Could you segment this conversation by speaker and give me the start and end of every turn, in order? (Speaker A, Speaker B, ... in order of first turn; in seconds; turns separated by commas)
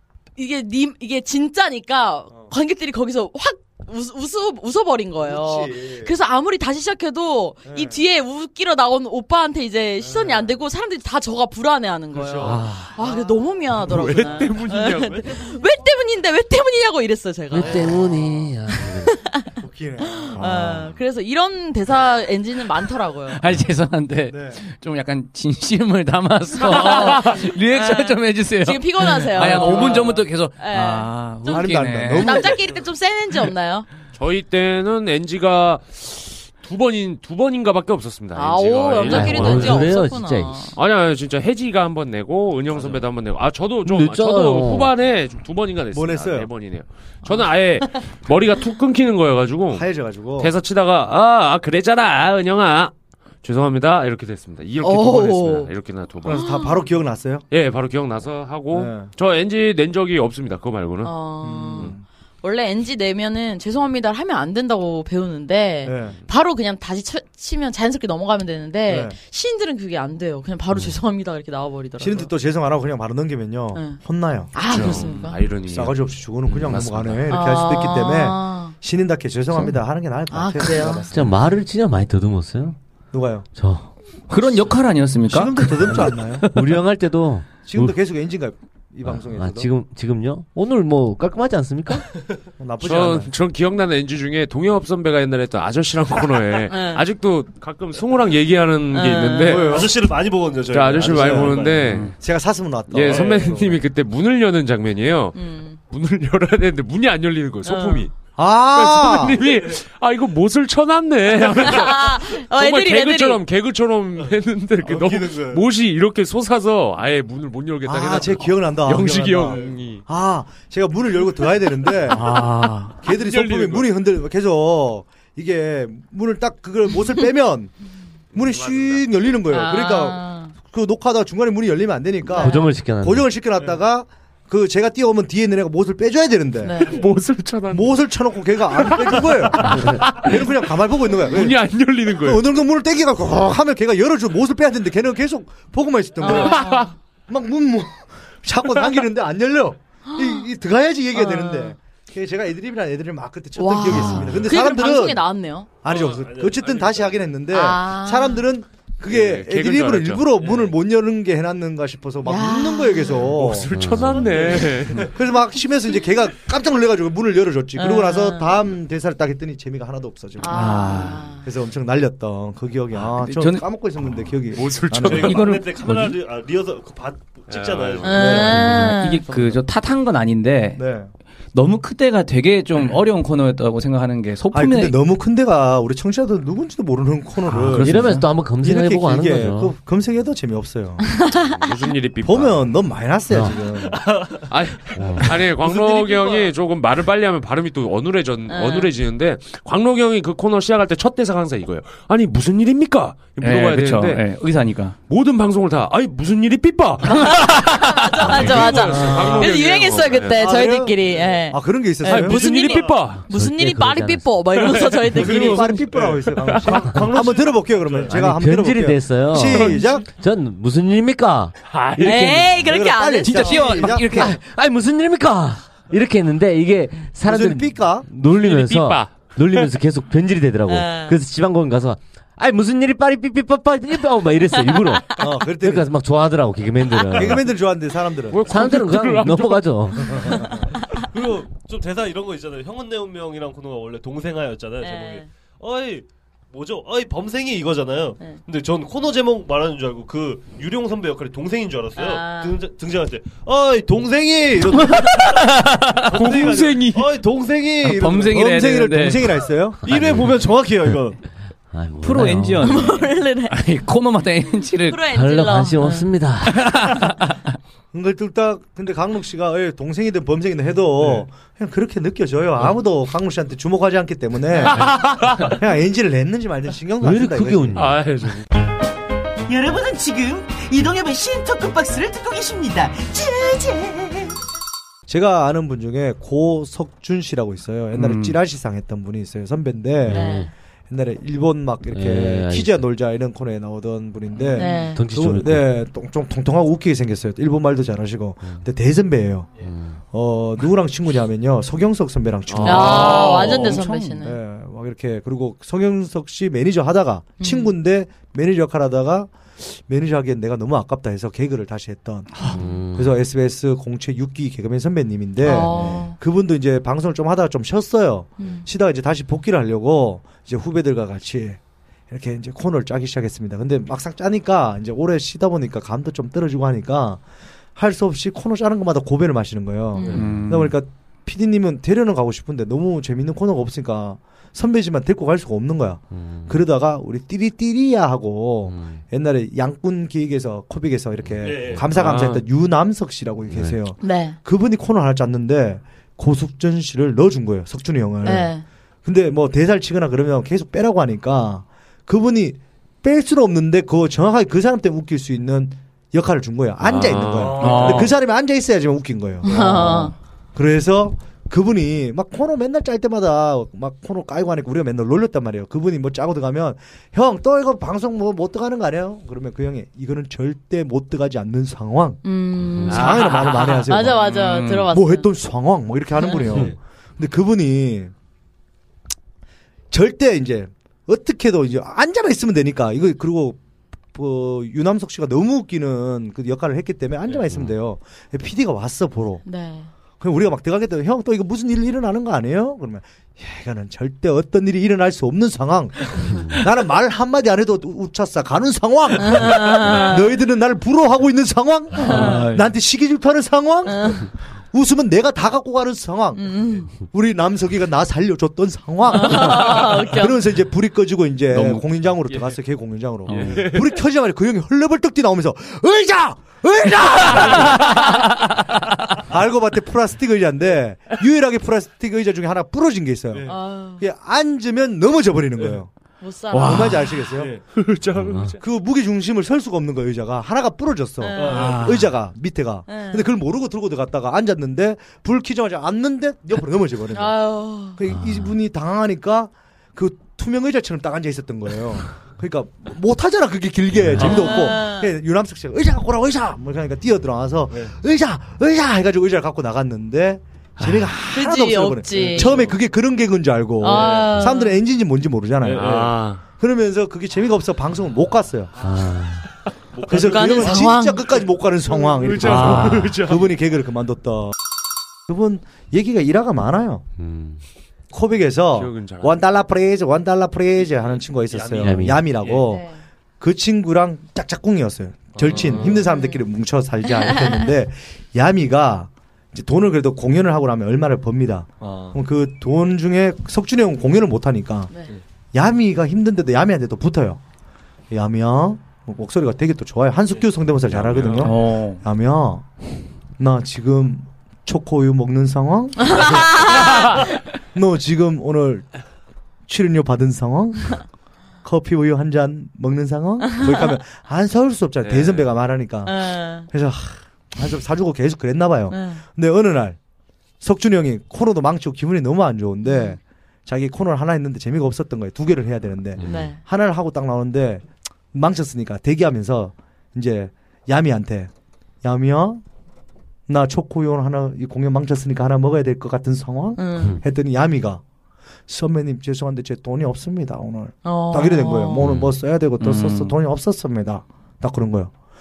Speaker A: 0.4-18.1, Speaker B: 5.2-6.1, Speaker B: 7.7-8.0, Speaker B: 10.0-10.5, Speaker B: 12.2-13.4, Speaker C: 12.4-12.9, Speaker D: 13.8-15.3, Speaker E: 15.1-15.3, Speaker C: 17.5-19.1, Speaker A: 18.7-23.4, Speaker B: 19.6-20.9, Speaker F: 23.4-32.5, Speaker B: 24.3-24.6, Speaker A: 26.6-33.9, Speaker B: 29.4-30.2, Speaker B: 31.5-32.6, Speaker D: 34.1-39.9, Speaker A: 38.4-40.8, Speaker C: 39.0-40.7, Speaker D: 40.8-56.6, Speaker C: 43.9-44.9, Speaker B: 45.9-46.5, Speaker B: 49.7-50.5, Speaker A: 54.8-55.7, Speaker B: 56.2-57.5, Speaker A: 56.3-56.8, Speaker D: 57.5-61.1, Speaker B: 58.7-59.1, Speaker A: 61.0-72.3, Speaker B: 61.4-62.0, Speaker B: 65.8-66.2, Speaker B: 68.9-69.2, Speaker B: 72.0-75.0, Speaker A: 73.8-74.0, Speaker A: 74.5-75.4, Speaker D: 74.6-77.3, Speaker B: 75.7-81.3, Speaker A: 77.3-78.8, Speaker A: 80.3-81.1, Speaker C: 81.1-82.8, Speaker B: 83.1-83.5, Speaker C: 83.5-83.9, Speaker F: 84.3-86.8, Speaker B: 85.3-86.5, Speaker C: 86.0-88.0, Speaker B: 87.7-89.7, Speaker C: 89.0-92.1, Speaker B: 92.6-93.3, Speaker D: 92.8-99.9, Speaker A: 96.7-97.0, Speaker A: 98.9-99.7, Speaker B: 99.5-100.0, Speaker E: 99.5-102.1, Speaker D: 100.7-102.1, Speaker B: 101.0-101.5, Speaker F: 101.8-102.2, Speaker B: 102.2-103.8, Speaker D: 102.9-105.4, Speaker E: 103.0-103.6, Speaker A: 105.3-105.8, Speaker D: 105.9-108.1, Speaker A: 107.7-108.1, Speaker B: 108.4-109.4, Speaker D: 108.7-120.0, Speaker A: 111.6-113.4, Speaker E: 114.2-115.7, Speaker B: 117.8-127.8, Speaker E: 119.5-119.8, Speaker F: 122.1-123.0, Speaker D: 123.0-123.9, Speaker B: 128.3-136.9, Speaker D: 128.4-129.1, Speaker A: 129.5-130.5, Speaker A: 132.3-132.6, Speaker C: 132.3-133.3, Speaker A: 136.6-137.0, Speaker D: 136.9-138.1, Speaker B: 137.7-141.6, Speaker D: 138.7-142.5, Speaker C: 139.7-140.1, Speaker B: 142.1-155.2, Speaker A: 146.2-146.9, Speaker D: 146.3-146.9, Speaker A: 150.1-150.5, Speaker A: 151.1-151.8, Speaker A: 153.6-155.7, Speaker B: 155.8-163.7, Speaker E: 155.9-157.3, Speaker A: 157.5-158.5, Speaker D: 159.1-160.3, Speaker E: 160.4-160.7, Speaker A: 162.2-163.3, Speaker D: 163.3-165.1, Speaker C: 163.7-164.3, Speaker E: 164.0-165.2, Speaker B: 165.1-175.5, Speaker A: 167.8-168.5, Speaker A: 170.4-171.5, Speaker F: 170.5-171.3, Speaker F: 173.0-173.7, Speaker D: 174.5-175.6, Speaker E: 175.0-178.7, Speaker F: 175.2-176.2, Speaker D: 177.5-178.3, Speaker A: 178.0-179.2, Speaker B: 178.2-178.7, Speaker F: 178.4-180.8, Speaker B: 180.8-181.1, Speaker F: 181.5-185.0, Speaker B: 184.5-191.1, Speaker F: 187.4-188.3, Speaker C: 187.7-189.8, Speaker A: 191.1-191.6, Speaker D: 191.3-192.7, Speaker B: 192.2-194.0, Speaker C: 193.3-193.6, Speaker E: 193.5-196.5, Speaker D: 194.5-204.2, Speaker C: 195.0-195.3, Speaker A: 198.5-198.9, Speaker F: 203.4-205.0, Speaker D: 205.1-210.4, Speaker A: 207.1-215.7, Speaker F: 207.3-208.1, Speaker E: 208.9-209.4, Speaker B: 210.4-212.4, Speaker D: 212.1-213.2, Speaker E: 212.6-213.0, Speaker C: 213.2-214.3, Speaker D: 214.6-215.6, Speaker E: 215.1-218.2, Speaker B: 215.1-220.1, Speaker D: 216.1-217.0, Speaker C: 218.1-221.6, Speaker D: 221.7-222.4, Speaker A: 222.0-223.8, Speaker F: 222.0-222.5, Speaker B: 222.6-224.4, Speaker F: 223.2-224.3, Speaker C: 224.1-237.5, Speaker B: 227.2-228.1, Speaker D: 228.3-229.7, Speaker A: 230.7-231.2, Speaker B: 235.2-235.9, Speaker B: 237.2-238.5, Speaker D: 238.3-239.7, Speaker C: 238.4-240.4, Speaker B: 240.1-240.7, Speaker E: 240.8-255.5, Speaker A: 244.8-245.3, Speaker A: 252.0-252.6, Speaker F: 254.9-256.2, Speaker E: 256.1-258.4, Speaker D: 256.1-257.1, Speaker F: 257.8-259.4, Speaker B: 258.1-259.8, Speaker E: 259.8-261.2, Speaker C: 259.9-260.4, Speaker C: 261.7-262.9, Speaker F: 262.0-265.1, Speaker A: 262.6-263.6, Speaker A: 264.9-266.1, Speaker C: 265.1-267.0, Speaker F: 266.5-267.4, Speaker B: 267.9-277.9, Speaker D: 274.7-275.6, Speaker C: 277.0-278.0, Speaker D: 277.8-278.5, Speaker G: 279.5-284.4, Speaker B: 285.1-299.5, Speaker F: 287.9-288.4, Speaker C: 290.0-290.5, Speaker A: 290.1-290.5, Speaker C: 291.9-292.7, Speaker A: 294.6-295.0, Speaker C: 294.9-295.7, Speaker C: 299.6-300.0, Speaker B: 300.1-312.3, Speaker D: 302.5-303.6, Speaker A: 302.6-304.4, Speaker F: 302.8-304.2, Speaker A: 307.4-307.7, Speaker F: 312.3-312.6, Speaker C: 312.5-313.2, Speaker B: 312.9-321.6, Speaker A: 315.4-316.2, Speaker F: 315.5-316.1, Speaker A: 318.4-318.7, Speaker B: 322.1-327.2, Speaker B: 327.8-348.5, Speaker A: 329.9-330.2, Speaker F: 330.1-330.8, Speaker C: 336.1-336.6, Speaker C: 338.7-339.0, Speaker E: 341.4-342.2, Speaker D: 341.9-342.4, Speaker C: 343.5-343.8, Speaker A: 344.0-344.4, Speaker A: 348.2-348.6, Speaker B: 349.1-372.2, Speaker D: 356.8-357.8, Speaker E: 357.2-358.1, Speaker F: 357.6-358.2, Speaker A: 359.4-360.1, Speaker A: 372.2-375.3, Speaker B: 372.8-374.3, Speaker D: 372.9-373.9, Speaker F: 374.3-374.9, Speaker B: 374.9-378.1, Speaker A: 376.2-376.7, Speaker E: 376.5-376.8, Speaker B: 379.9-383.6, Speaker B: 384.1-389.4, Speaker A: 389.4-389.9, Speaker B: 390.2-418.3, Speaker C: 396.3-396.6, Speaker A: 399.2-400.2, Speaker F: 402.0-402.7, Speaker A: 402.0-402.4, Speaker A: 403.9-404.3, Speaker A: 406.4-406.9, Speaker A: 409.1-410.4, Speaker F: 411.5-412.4, Speaker F: 413.3-413.8, Speaker D: 413.5-413.8, Speaker F: 417.8-418.6, Speaker B: 419.2-425.9, Speaker E: 423.3-423.6, Speaker A: 423.4-424.0, Speaker A: 426.2-427.2, Speaker F: 426.5-427.4, Speaker B: 426.6-427.6, Speaker E: 427.4-427.7, Speaker D: 427.7-428.6, Speaker C: 428.2-428.6, Speaker B: 428.6-456.0, Speaker A: 431.2-431.8, Speaker E: 431.4-431.9, Speaker F: 431.5-432.1, Speaker A: 432.9-433.3, Speaker A: 437.1-438.0, Speaker C: 438.1-438.6, Speaker E: 444.2-444.6, Speaker A: 444.2-445.1, Speaker E: 447.7-448.0, Speaker F: 450.8-451.1, Speaker A: 451.3-452.6, Speaker E: 452.1-452.8, Speaker A: 453.8-454.8, Speaker E: 453.9-454.4, Speaker E: 455.6-456.2, Speaker D: 455.8-456.4, Speaker B: 456.6-458.7, Speaker C: 458.8-459.5, Speaker E: 459.9-462.8, Speaker B: 460.1-464.5, Speaker A: 460.1-461.4, Speaker D: 462.2-463.5, Speaker C: 462.4-463.2, Speaker B: 465.3-467.1, Speaker C: 467.2-467.6, Speaker B: 468.1-472.9, Speaker D: 468.7-469.6, Speaker E: 470.8-472.7, Speaker C: 471.8-472.3, Speaker A: 472.5-473.0, Speaker B: 473.4-484.9, Speaker E: 475.3-476.1, Speaker A: 475.8-476.4, Speaker E: 481.8-482.2, Speaker B: 485.5-487.4, Speaker B: 488.1-492.7, Speaker E: 490.3-491.5, Speaker F: 491.4-492.0, Speaker B: 493.4-497.1, Speaker A: 496.1-497.1, Speaker B: 497.7-498.9, Speaker B: 499.7-501.1, Speaker B: 501.6-510.0, Speaker D: 505.0-505.5, Speaker A: 506.1-506.7, Speaker A: 508.9-509.2, Speaker B: 510.6-521.5, Speaker A: 512.8-513.2, Speaker C: 516.2-516.5, Speaker A: 516.2-516.6, Speaker B: 522.0-522.6, Speaker B: 523.5-528.0, Speaker A: 526.8-527.2, Speaker B: 528.7-535.1, Speaker A: 531.0-532.1, Speaker C: 532.0-532.4, Speaker F: 532.8-533.4